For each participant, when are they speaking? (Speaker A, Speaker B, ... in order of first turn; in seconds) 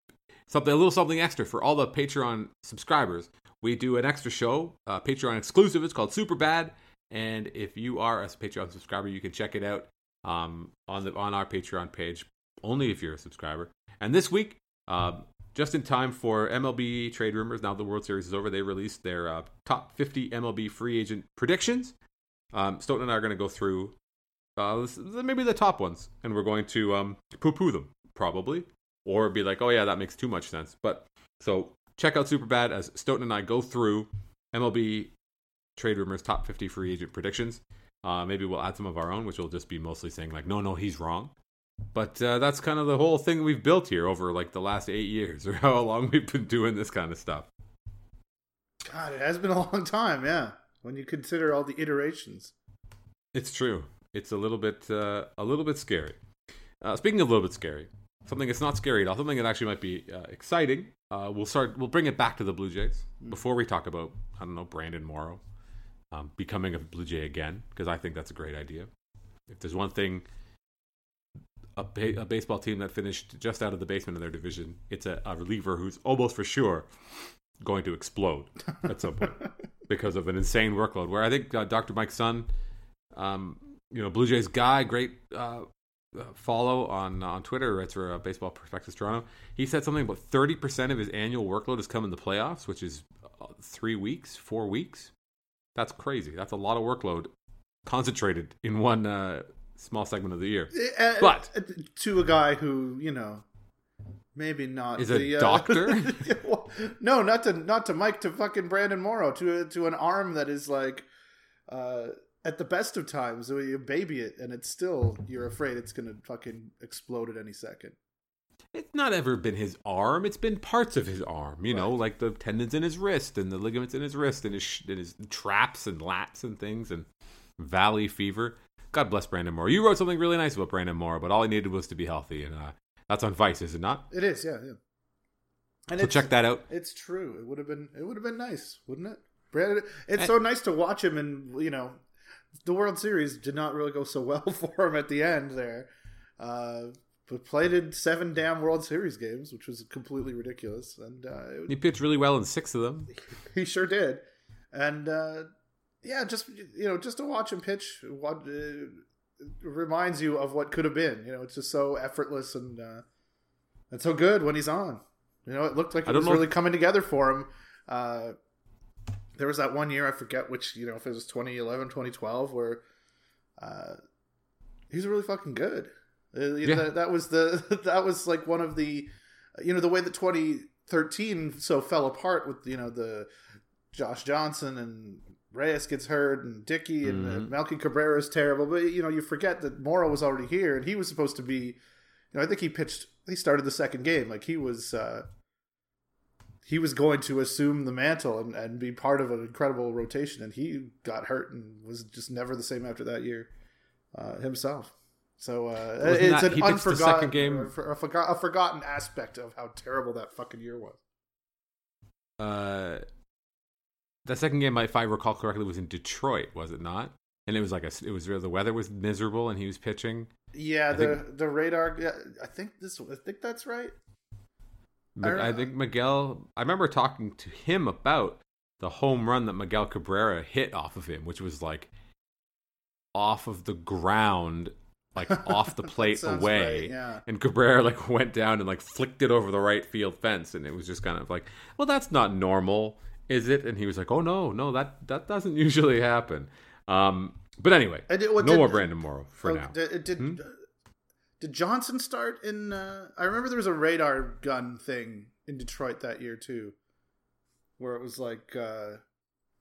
Speaker A: 0.5-21.9, 22.5-24.0, 24.6-35.1, 35.8-41.4, 41.9-47.5, 53.3-56.2, 56.8-65.4, 66.1-68.9, 69.5-70.3, 71.8-76.9, 77.6-82.5, 83.1-95.1, 95.8-97.3, 97.8-101.5, 105.0-106.2, 118.7-127.1, 127.6-134.1, 136.0-136.7, 151.7-153.2, 166.1-166.5, 187.0-187.5, 206.0-207.7, 212.4-213.1, 214.2-220.3, 220.9-221.2, 225.2-231.9, 233.2-250.4
Speaker B: 48.9-52.5, 100.7-103.5, 104.3-111.1, 111.7-118.0, 134.1-134.8, 135.9-142.0, 142.7-145.9, 146.4-151.8, 153.2-155.5, 156.0-159.0, 159.6-163.0, 163.9-168.4, 169.4-172.8, 173.6-174.0, 174.9-183.3, 183.9-191.8, 192.3-195.2, 196.7-203.5, 204.1-211.0, 220.5-223.9, 225.2-225.7, 235.4-237.2, 248.1-248.9, 249.4-250.6, 251.4-256.8, 257.8-259.0